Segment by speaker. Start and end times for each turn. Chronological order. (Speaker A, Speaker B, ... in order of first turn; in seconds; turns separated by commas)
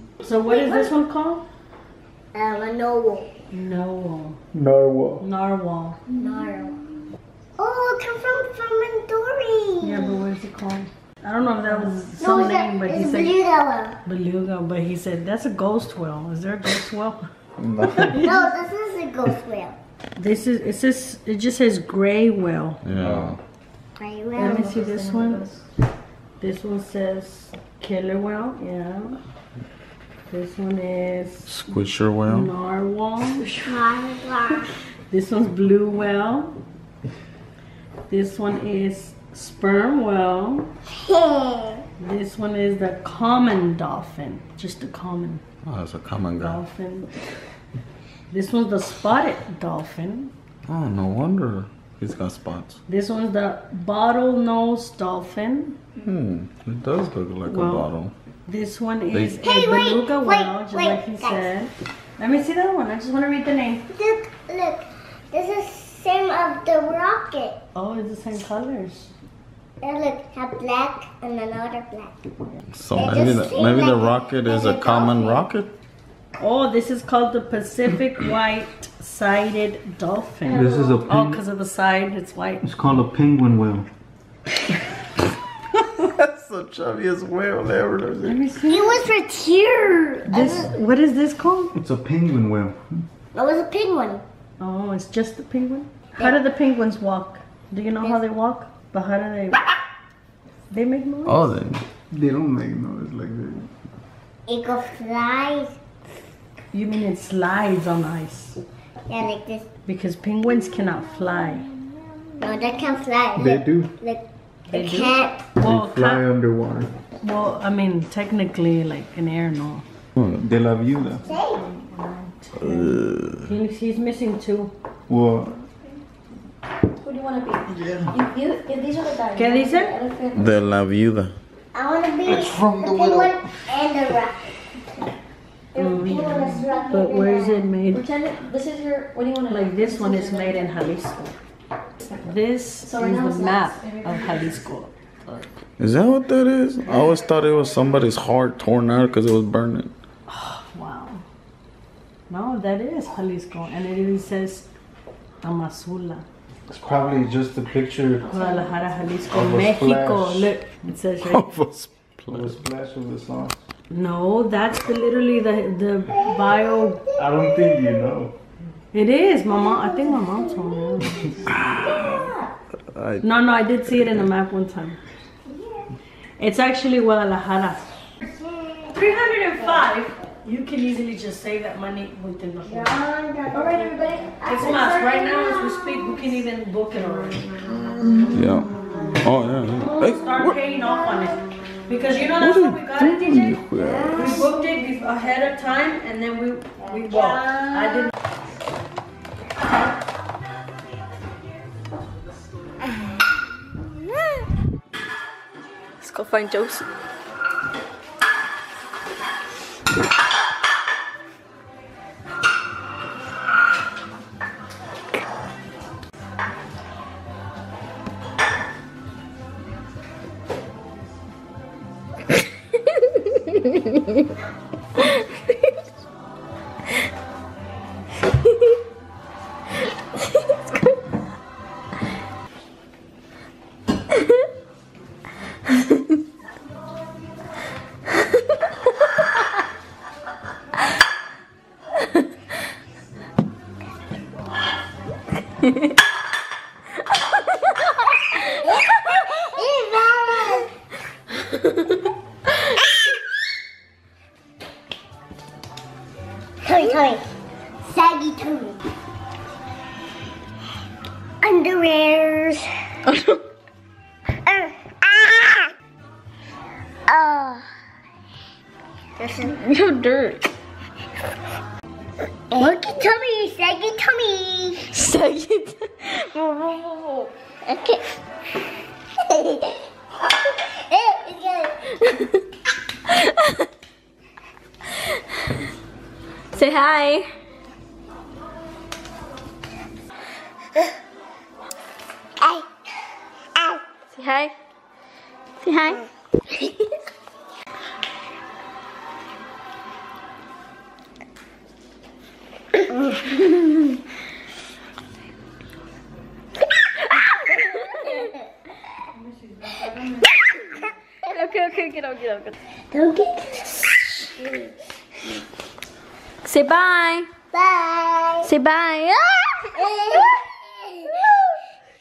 Speaker A: 0.2-1.4, Speaker B: 0.5-0.9, Speaker B: 2.3-3.3, Speaker A: 3.5-4.4, Speaker C: 4.5-5.2, Speaker A: 5.2-6.0, Speaker B: 6.1-6.8, Speaker B: 7.6-10.2, Speaker A: 9.8-13.4, Speaker B: 12.1-14.0, Speaker A: 14.0-17.2, Speaker D: 17.9-18.2, Speaker B: 18.1-19.8, Speaker A: 20.1-22.8, Speaker D: 22.8-23.4, Speaker C: 23.0-23.3, Speaker B: 24.0-24.7, Speaker A: 24.4-25.5, Speaker E: 24.4-25.6, Speaker A: 26.4-29.2, Speaker A: 30.3-31.5, Speaker D: 31.5-32.5, Speaker A: 32.3-33.6, Speaker E: 33.4-33.8, Speaker B: 33.6-34.7, Speaker A: 35.1-36.6, Speaker A: 38.1-40.7, Speaker B: 41.0-41.9, Speaker A: 42.0-45.4, Speaker D: 45.6-46.6, Speaker A: 46.4-47.1, Speaker A: 48.3-50.3, Speaker D: 50.7-52.8, Speaker A: 52.9-55.8, Speaker D: 56.0-58.1, Speaker A: 57.5-57.9, Speaker A: 58.5-63.9, Speaker B: 59.4-61.5, Speaker B: 63.9-67.6, Speaker A: 67.7-69.1, Speaker B: 69.8-72.2, Speaker D: 72.7-75.7, Speaker B: 72.9-75.5, Speaker A: 76.4-82.6, Speaker C: 80.5-81.4, Speaker B: 80.5-81.0, Speaker C: 82.6-83.9, Speaker D: 86.0-88.4, Speaker A: 88.2-89.1, Speaker B: 88.7-90.7, Speaker A: 90.2-91.7, Speaker C: 91.8-93.1, Speaker B: 93.3-94.2, Speaker A: 94.6-99.6, Speaker A: 100.7-101.5, Speaker D: 101.2-101.8, Speaker C: 102.1-103.7, Speaker B: 104.5-105.8, Speaker A: 106.7-108.6, Speaker B: 109.1-109.7, Speaker A: 109.8-111.7, Speaker B: 112.4-115.5, Speaker C: 113.3-113.9, Speaker A: 114.7-116.3, Speaker C: 115.6-116.9, Speaker A: 117.2-119.8, Speaker D: 120.2-120.4, Speaker C: 120.3-121.2, Speaker B: 121.2-121.6, Speaker A: 121.2-124.7, Speaker D: 122.6-123.5, Speaker C: 125.1-125.6, Speaker E: 127.0-130.5, Speaker A: 129.3-129.9, Speaker D: 130.3-131.3, Speaker B: 131.7-134.4, Speaker C: 132.2-133.3, Speaker A: 135.8-138.0, Speaker B: 135.8-137.6, Speaker E: 135.8-136.7, Speaker E: 137.9-140.7, Speaker A: 139.5-141.3, Speaker A: 142.2-145.4, Speaker E: 142.8-144.5, Speaker D: 145.8-149.9, Speaker A: 150.3-151.2, Speaker A: 152.3-154.7, Speaker A: 155.4-156.2, Speaker C: 156.7-158.3, Speaker A: 158.3-161.6, Speaker E: 158.3-158.6, Speaker C: 159.3-160.5, Speaker D: 161.2-162.6, Speaker C: 162.3-163.6, Speaker A: 163.9-167.0, Speaker C: 167.2-168.3, Speaker B: 167.2-168.1, Speaker A: 168.9-171.4, Speaker B: 169.6-172.5, Speaker D: 171.5-172.2, Speaker D: 172.9-173.3, Speaker A: 173.2-175.0, Speaker D: 173.9-174.2, Speaker B: 175.5-175.8, Speaker A: 176.4-177.8, Speaker B: 178.2-179.9, Speaker A: 178.9-183.0, Speaker B: 182.6-186.1, Speaker E: 183.5-184.4, Speaker A: 184.4-187.5, Speaker D: 188.3-190.6, Speaker A: 189.8-198.1, Speaker D: 192.3-194.4, Speaker B: 193.8-194.4, Speaker E: 206.0-206.8, Speaker B: 248.6-250.7, Speaker B: 256.6-257.2, Speaker B: 257.8-258.8, Speaker B: 261.4-262.6, Speaker E: 263.1-263.4, Speaker B: 264.4-265.7, Speaker B: 267.1-267.7, Speaker B: 269.2-269.6, Speaker E: 269.5-270.4, Speaker B: 272.5-274.9, Speaker E: 274.9-276.4, Speaker B: 276.5-278.0, Speaker B: 279.2-279.8, Speaker B: 280.6-282.0, Speaker E: 283.1-283.5, Speaker E: 286.5-287.3, Speaker B: 292.4-292.6, Speaker E: 294.1-294.5, Speaker E: 295.6-296.0, Speaker E: 307.7-308.1, Speaker A: 309.1-310.3, Speaker E: 311.2-312.6, Speaker B: 312.9-314.2, Speaker E: 316.4-317.3, Speaker B: 317.5-318.5, Speaker E: 318.4-319.7, Speaker B: 319.7-321.4